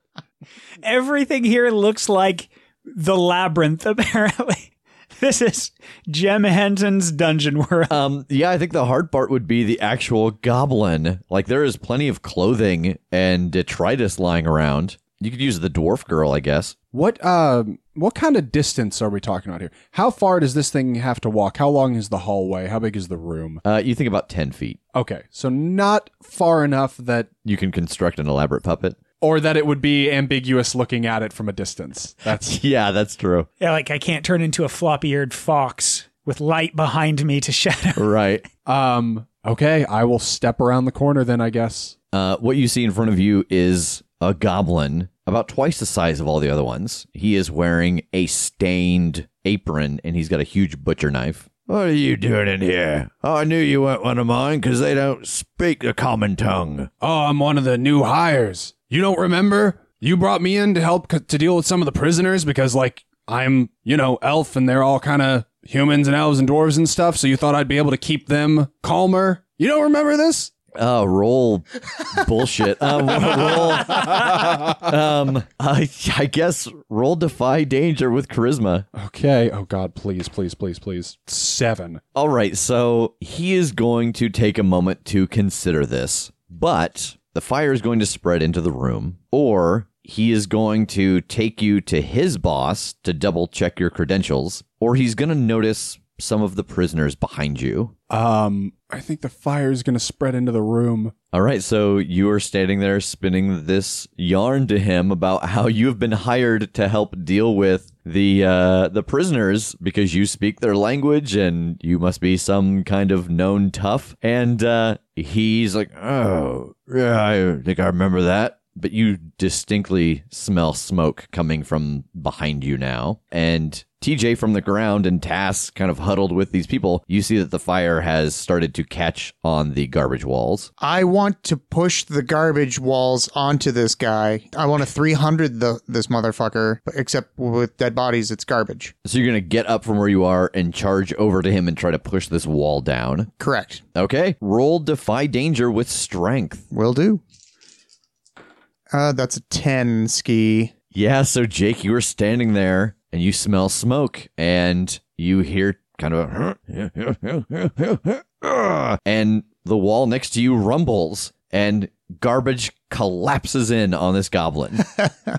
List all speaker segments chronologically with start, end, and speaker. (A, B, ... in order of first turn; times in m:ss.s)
0:00.8-0:08.0 A
0:07.9-0:16.7 B
0:16.9-0:23.6 C
0:23.6-0:24.8 B
0:24.9-0:27.3 C
0:27.4-0:29.0 B
0:29.2-0:32.6 C
0:32.4-0:33.5 B
0:33.6-0:38.1 A
0:38.0-0:38.4 B
0:38.6-0:41.9 C
0:42.1-0:56.9 B
0:57.0-1:10.5 C
1:10.7-1:18.9 B
1:18.9-1:22.0 C
1:22.1-1:37.9 B
1:38.1-1:41.1 C
1:41.3-2:10.7 B
2:10.8-2:18.9 D
2:19.0-2:23.3 B
2:23.4-2:23.8 D
2:23.9-2:26.6 B
2:26.7-2:27.2 D
2:28.9-2:30.7 D
2:30.9-2:44.9 B